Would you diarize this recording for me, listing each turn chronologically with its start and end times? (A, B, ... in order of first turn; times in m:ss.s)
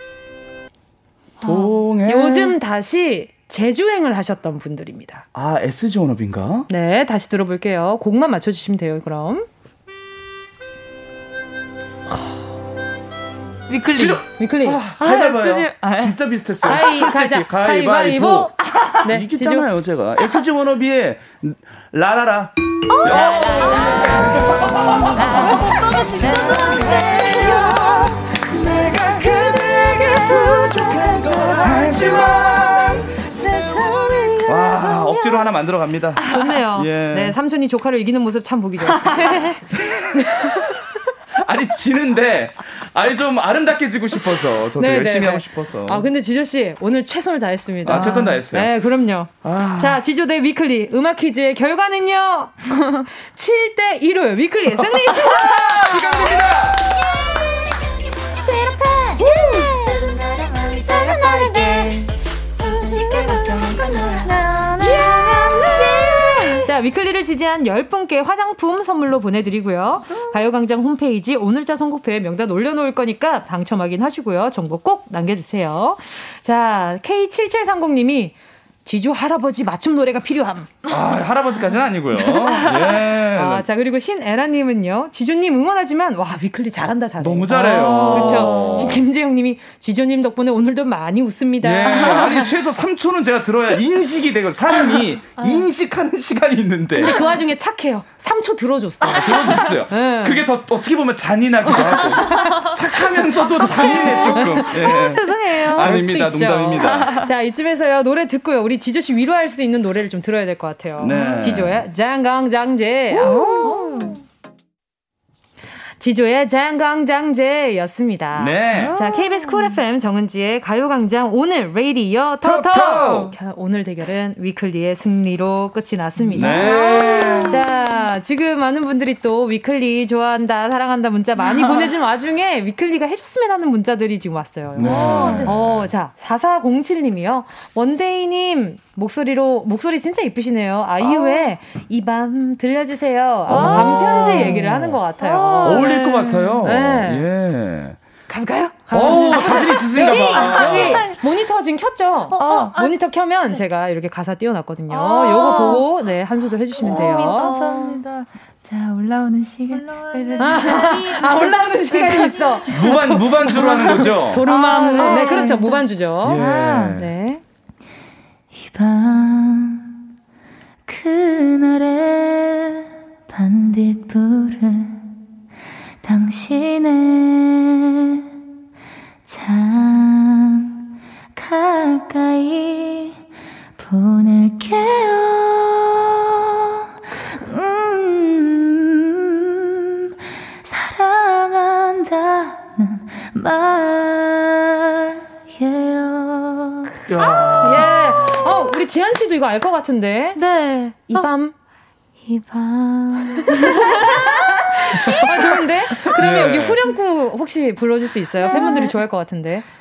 0:01.4-0:02.6 A
0:02.0-0:05.3 B
0:05.3-0:06.7 A
0:06.7-0:09.5 B
0:13.7-0:14.2 C
0:14.0-0:25.5 A
0:14.4-0:14.9 B
0:14.9-0:16.2 C
0:16.6-0:19.7 B
0:18.5-0:19.0 C
0:22.9-0:26.6 C
0:23.1-0:24.4 B
0:25.1-0:27.1 B
0:26.6-0:34.8 D
0:31.6-0:33.1 A
0:32.2-0:32.6 B
0:34.4-0:37.4 A
0:34.7-0:35.3 B
0:36.2-0:36.4 C
0:36.2-0:40.9 B
0:38.8-0:39.6 C
0:41.4-0:46.1 A
0:44.8-0:56.5 B
0:47.8-0:48.7 A
0:49.4-0:50.0 A
0:55.5-0:56.8 A
0:58.8-0:59.3 E
0:59.0-1:00.0 B
1:00.9-1:02.0 B
1:02.7-1:03.8 E
1:02.9-1:05.9 B
1:05.9-1:06.1 E
1:06.6-1:20.8 B
1:20.9-1:23.6 A
1:22.2-1:32.5 B
1:22.3-1:22.8 C
1:27.2-1:29.0 A
1:28.0-1:28.8 C
1:31.6-1:37.2 A
1:37.0-1:40.4 B
1:39.1-1:47.3 A
1:41.7-1:42.6 B
1:43.7-1:45.2 C
1:43.8-1:54.2 B
1:45.3-1:45.5 F
1:51.0-1:51.9 A
1:53.2-1:54.2 C
1:56.0-2:06.8 B
1:58.4-1:59.0 A
1:58.7-1:59.8 C
2:02.4-2:03.3 A
2:06.3-2:07.6 C
2:06.3-2:07.6 A
2:07.4-2:26.0 B
2:11.5-2:11.8 C
2:14.8-2:15.9 A
2:14.8-2:15.5 C
2:23.5-2:25.0 A
2:23.5-2:26.6 C
2:25.6-2:28.0 A
2:26.6-2:27.3 B
2:28.3-2:37.6 B
2:28.9-2:31.1 A
2:29.4-2:31.0 C
2:32.4-2:32.9 C
2:35.0-2:35.8 C
2:35.0-2:35.8 F
2:36.8-2:42.9 C
2:37.0-2:38.0 F
2:39.7-2:41.6 F
2:40.4-2:47.4 B
2:42.7-2:44.5 A
2:44.5-2:47.0 C
2:46.2-2:47.1 A
2:48.6-2:49.9 E
2:50.9-2:55.0 E
2:56.0-2:58.2 E
2:59.3-3:00.8 E
3:01.4-3:03.2 E
3:03.8-3:06.2 E
3:07.4-3:10.0 E
3:10.6-3:17.0 E
3:17.1-3:17.8 A
3:17.5-3:20.4 B
3:20.4-3:21.3 F
3:21.1-3:21.6 B
3:22.2-3:23.5 E
3:23.6-3:29.6 B
3:26.1-3:26.8 A
3:28.5-3:28.9 F
3:28.5-3:28.9 E